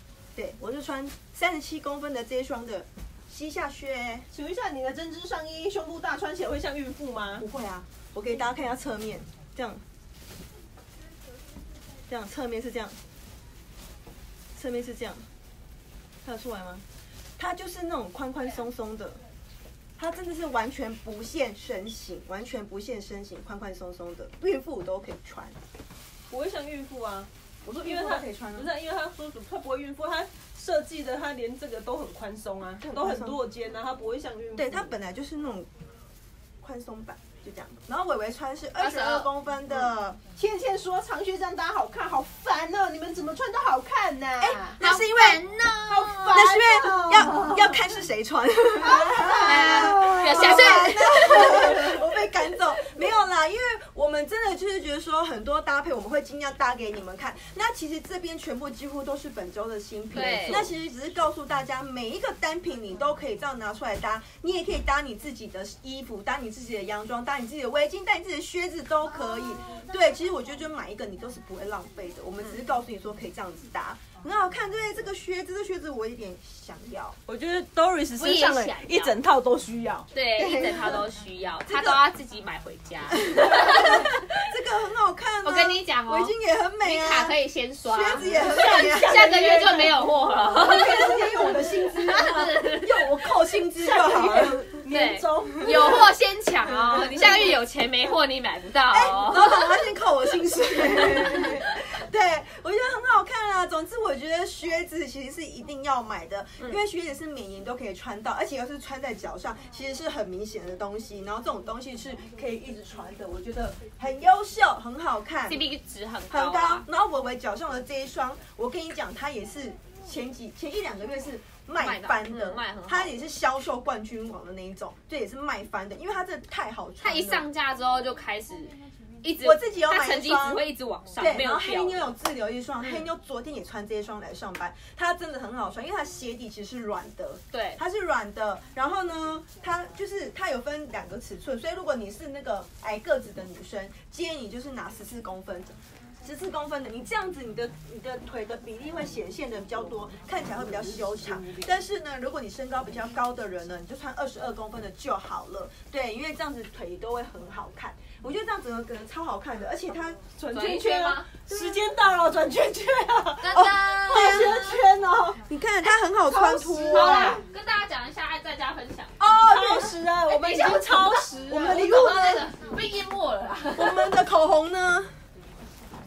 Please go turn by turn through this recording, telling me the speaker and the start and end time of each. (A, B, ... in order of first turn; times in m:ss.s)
0:00.4-0:04.3 A
0:04.3-0:07.5 B
0:07.4-0:09.8 A
0:12.1-0:13.0 A
0:14.6-0:15.3 A
0:16.2-0:16.8 A
0:17.4-0:19.2 A
0:20.0-0:25.6 A
0:26.3-0:34.9 B
0:27.6-0:28.7 A
0:32.8-0:33.4 A
0:34.6-0:35.7 A
0:36.6-0:40.2 A
0:38.8-0:39.3 C
0:40.4-0:44.8 B
0:44.4-0:45.4 A
0:44.8-0:46.4 C
0:45.9-0:47.8 B
0:46.3-1:17.2 A
0:48.8-0:52.1 B
0:49.4-0:51.1 C
1:00.1-1:00.7 C
1:17.3-1:20.1 B
1:18.2-1:19.2 C
1:20.1-1:24.2 C
1:20.4-1:21.1 A
1:21.6-1:22.1 A
1:23.1-1:29.4 A
1:25.4-1:33.1 C
1:28.2-1:32.2 B
1:30.6-1:34.6 A
1:33.8-1:36.2 B
1:34.9-1:39.8 C
1:36.7-1:37.6 B
1:38.9-1:55.6 A
1:40.9-1:41.5 C
1:55.5-1:56.9 C
1:56.3-2:07.5 A
2:01.8-2:03.2 C
2:07.0-2:12.1 C
2:09.4-2:10.6 A
2:11.2-2:40.2 A
2:17.5-2:17.8 C
2:30.5-2:31.7 B
2:40.3-2:45.4 B
2:40.5-2:41.3 C
2:41.5-2:41.9 A
2:43.4-2:44.7 C
2:43.5-2:44.8 A
2:45.4-2:47.4 A
2:46.3-2:47.4 B
2:46.8-2:49.2 C
2:49.2-2:49.9 A
2:49.2-2:51.9 B
2:50.3-2:54.2 C
2:51.5-2:52.5 A
2:53.8-2:55.2 A